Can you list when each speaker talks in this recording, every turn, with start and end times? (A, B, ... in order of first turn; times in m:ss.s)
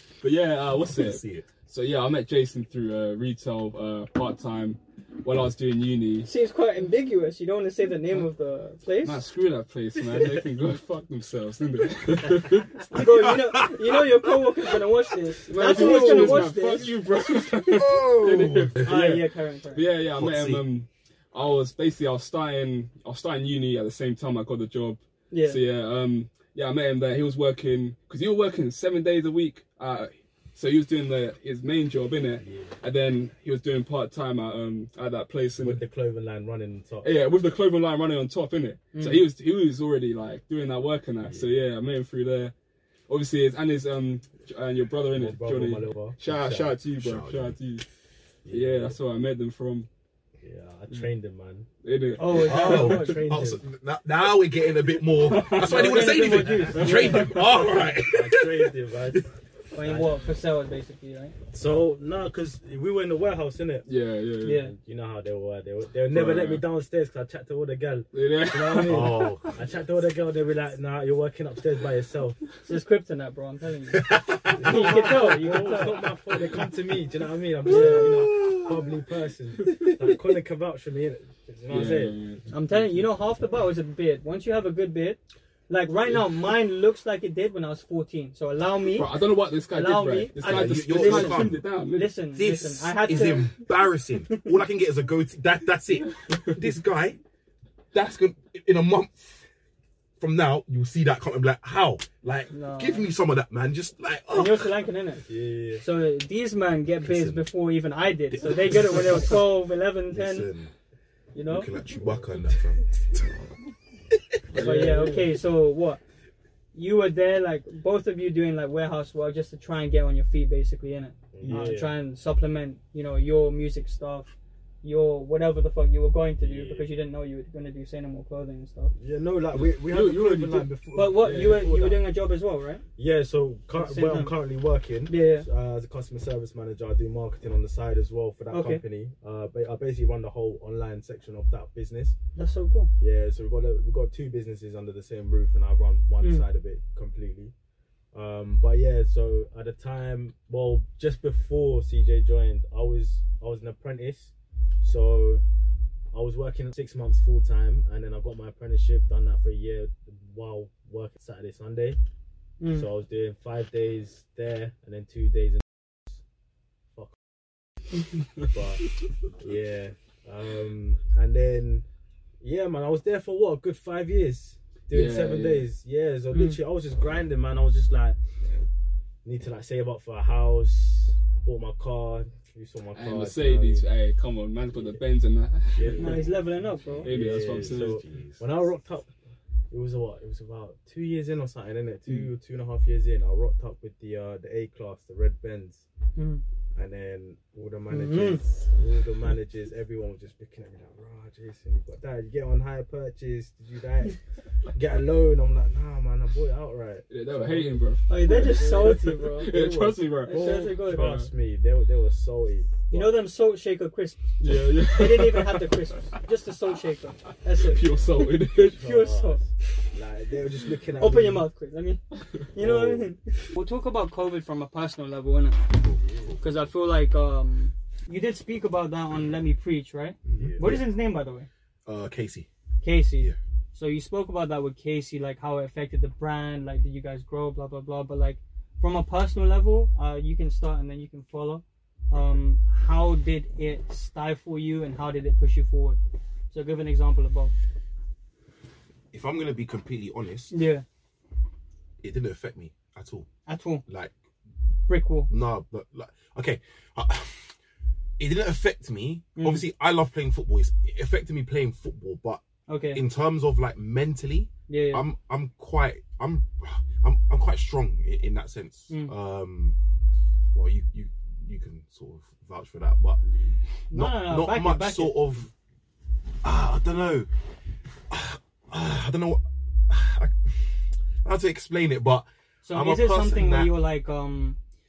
0:00.2-0:06.3 A
0:01.0-0:01.5 B
0:06.2-0:09.2 C
0:09.0-0:12.8 A
0:12.8-0:14.8 B
0:12.9-0:16.9 C
0:15.5-0:19.2 A
0:15.6-0:16.5 B
0:17.6-0:19.0 B
0:18.8-0:19.9 C
0:19.8-0:35.8 A
0:20.2-0:20.6 B
0:25.3-0:25.6 C
0:32.4-0:32.8 D
0:35.6-0:37.1 D
0:37.0-0:42.5 A
0:38.9-0:39.2 C
0:41.2-0:41.5 D
0:43.1-0:47.9 A
0:45.1-0:46.8 D
0:47.0-0:47.6 B
0:48.4-0:49.0 D
0:48.5-0:49.9 A
0:50.4-0:51.7 D
0:51.8-0:53.0 A
0:52.2-0:53.2 C
0:52.2-0:53.6 D
0:52.3-0:59.2 B
0:55.3-0:55.9 A
0:55.5-0:57.4 C
0:55.5-0:59.3 D
0:56.8-0:57.3 A
0:59.7-1:01.4 C
0:59.8-1:00.2 D
1:01.5-1:03.9 D
1:03.9-1:04.6 A
1:04.4-1:04.7 C
1:04.5-1:12.4 D
1:06.1-1:06.7 A
1:08.1-1:09.3 A
1:08.8-1:09.6 B
1:12.6-1:16.1 C
1:13.9-1:15.0 B
1:14.5-1:22.2 D
1:17.7-1:18.8 B
1:19.7-1:19.9 A
1:21.7-1:22.8 A
1:22.5-1:29.2 C
1:28.9-1:32.1 A
1:29.7-1:33.5 C
1:30.4-1:31.6 B
1:32.3-1:37.2 B
1:37.9-1:39.4 B
1:40.2-1:44.8 B
1:42.5-1:43.1 C
1:44.3-1:45.2 C
1:45.3-1:45.8 D
1:45.8-1:50.5 C
1:47.0-1:47.5 B
1:48.3-1:49.4 B
1:50.1-1:50.7 B
1:51.3-1:51.7 C
1:51.5-1:53.5 B
1:54.5-1:55.2 A
1:54.5-1:55.3 D
1:54.6-1:56.0 C
1:56.7-2:08.9 C
2:01.3-2:02.0 D
2:01.4-2:01.7 A
2:06.4-2:06.9 D
2:09.0-2:12.0 D
2:09.5-2:11.7 A
2:11.0-2:12.8 C
2:13.0-2:22.2 D
2:13.8-2:14.3 C
2:15.1-2:15.5 C
2:18.5-2:18.8 C
2:22.4-2:22.9 C
2:23.0-2:27.5 D
2:28.1-2:35.4 D
2:36.1-2:42.0 D
2:42.6-2:42.9 C
2:42.7-2:46.2 D
2:48.4-2:51.9 D
2:52.4-2:58.2 D
2:54.9-2:55.7 A
2:56.3-2:56.6 C
2:59.2-3:03.9 D
3:03.0-3:06.2 A
3:04.7-3:05.0 D
3:05.7-3:09.1 D
3:06.0-3:07.1 C
3:07.0-3:08.0 A
3:07.3-3:08.4 B
3:09.7-3:15.8 D
3:16.2-3:16.4 C
3:16.7-3:24.2 D
3:17.9-3:18.4 C
3:24.7-3:33.2 D
3:27.1-3:31.3 A
3:28.1-3:29.5 C
3:30.3-3:31.2 C
3:32.9-3:39.4 C
3:34.4-3:35.8 A
3:37.6-3:38.8 A
3:38.6-3:41.5 D
3:41.0-3:42.0 C
3:42.5-3:45.6 C
3:42.6-3:43.1 D
3:45.8-3:46.5 B
3:46.0-3:46.3 D
3:46.4-3:51.5 C
3:50.2-3:50.9 B
3:50.3-3:50.8 D
3:51.9-3:52.5 B
3:52.8-4:06.0 C
4:02.1-4:02.4 B
4:06.5-4:07.5 C
4:09.1-4:10.5 B
4:10.5-4:10.8 C
4:12.0-4:13.3 B
4:13.5-4:13.8 C
4:13.9-4:14.1 B
4:14.9-4:15.3 C
4:15.3-4:17.6 B
4:18.2-4:29.8 B
4:19.4-4:19.7 C
4:22.7-4:23.0 C
4:24.7-4:25.0 C
4:30.5-4:33.2 B
4:33.3-4:33.5 D
4:33.9-4:35.2 C
4:33.9-4:35.5 B
4:36.4-4:37.3 B
4:38.1-4:43.7 B
4:42.6-4:44.6 C